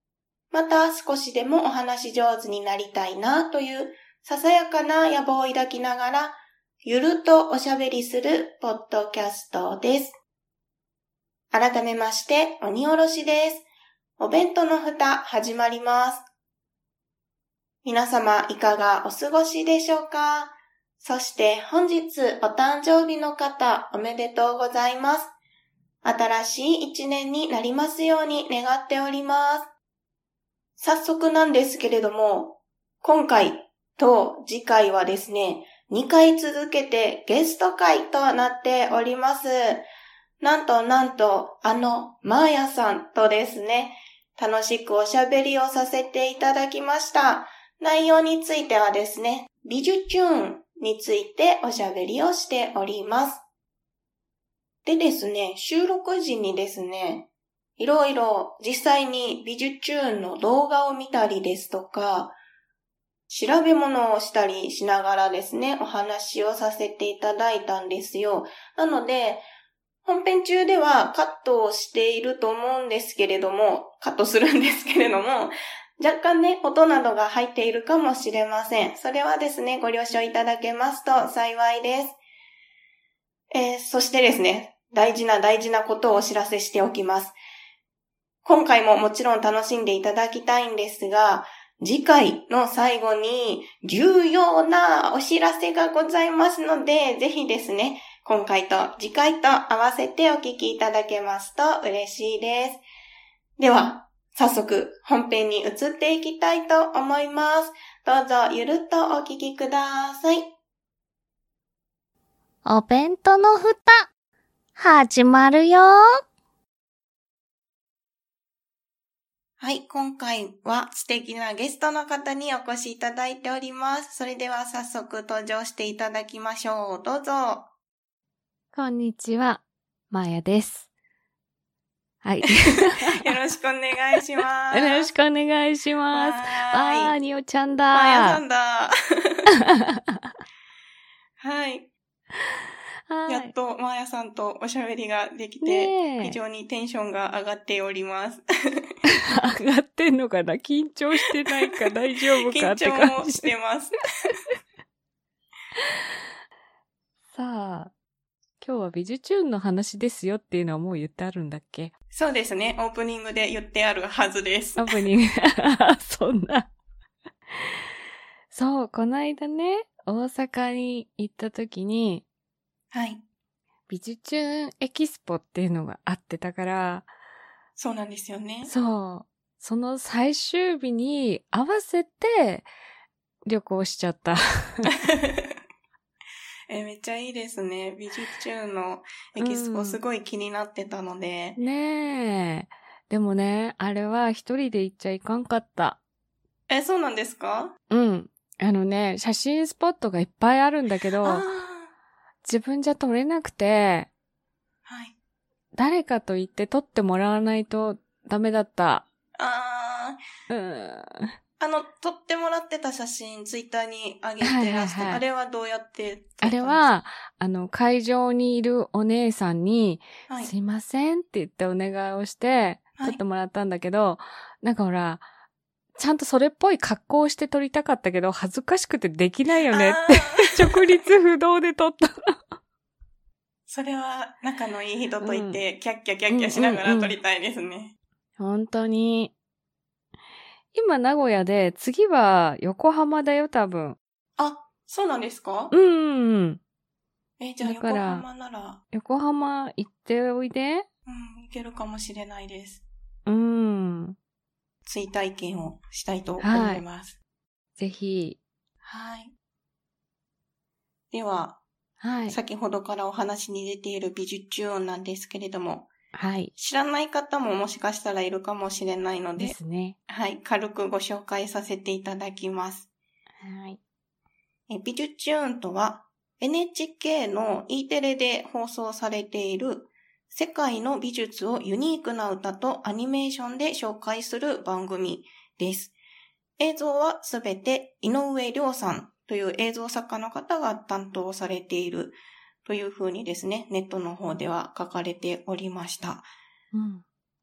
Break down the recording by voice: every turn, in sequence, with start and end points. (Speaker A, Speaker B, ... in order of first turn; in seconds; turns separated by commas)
Speaker A: 0.5-10.2, Speaker A: 11.5-16.3, Speaker A: 17.8-25.4, Speaker A: 26.0-29.7, Speaker A: 30.8-39.9, Speaker A: 40.4-53.4, Speaker A: 54.9-62.4, Speaker A: 63.3-69.5, Speaker A: 70.0-82.2, Speaker A: 83.5-87.4, Speaker A: 88.4-102.8, Speaker A: 103.6-110.5, Speaker B: 112.7-114.1, Speaker B: 114.8-116.0, Speaker A: 119.6-127.7, Speaker C: 128.7-130.9, Speaker C: 132.2-133.3, Speaker A: 132.7-135.1, Speaker C: 134.7-138.4, Speaker A: 136.1-137.2, Speaker A: 137.9-139.5, Speaker C: 139.7-140.3, Speaker A: 141.4-141.9, Speaker C: 143.1-143.5, Speaker A: 143.3-148.9, Speaker C: 145.6-146.4, Speaker C: 149.1-153.5, Speaker A: 152.4-154.3, Speaker C: 157.3-157.9, Speaker C: 158.6-161.9, Speaker A: 162.1-164.9, Speaker C: 164.8-166.7, Speaker C: 168.5-172.2, Speaker A: 172.9-173.2, Speaker C: 173.9-177.1, Speaker A: 177.8-178.7, Speaker C: 178.7-182.7, Speaker C: 183.4-184.9, Speaker A: 184.9-185.5, Speaker A: 186.7-191.6, Speaker C: 189.4-190.0, Speaker C: 191.6-196.0, Speaker A: 196.7-197.7, Speaker C: 197.9-201.5, Speaker A: 201.2-201.9, Speaker C: 202.4-204.1, Speaker A: 204.9-205.2, Speaker C: 205.7-209.1, Speaker A: 209.4-210.2, Speaker C: 210.5-211.3, Speaker A: 211.6-216.9, Speaker C: 214.4-215.2, Speaker C: 216.4-225.2, Speaker C: 226.0-232.4, Speaker A: 229.7-230.8, Speaker A: 233.7-238.0, Speaker C: 235.2-235.6, Speaker C: 236.3-237.2, Speaker C: 238.4-239.3, Speaker C: 240.7-244.0, Speaker A: 244.4-245.7, Speaker C: 245.7-246.6, Speaker A: 247.4-248.8, Speaker C: 247.6-248.3, Speaker C: 248.9-250.9, Speaker A: 251.1-252.8, Speaker C: 253.3-254.2, Speaker A: 254.8-257.2, Speaker C: 256.4-256.8, Speaker C: 257.8-258.4, Speaker A: 258.8-259.3, Speaker A: 261.1-261.6, Speaker C: 262.0-262.4, Speaker A: 262.3-265.9, Speaker C: 266.1-266.5, Speaker A: 266.6-269.6, Speaker C: 269.4-270.0, Speaker A: 270.1-272.9, Speaker C: 273.4-273.8, Speaker A: 274.7-285.9, Speaker A: 286.6-296.3, Speaker C: 296.7-297.0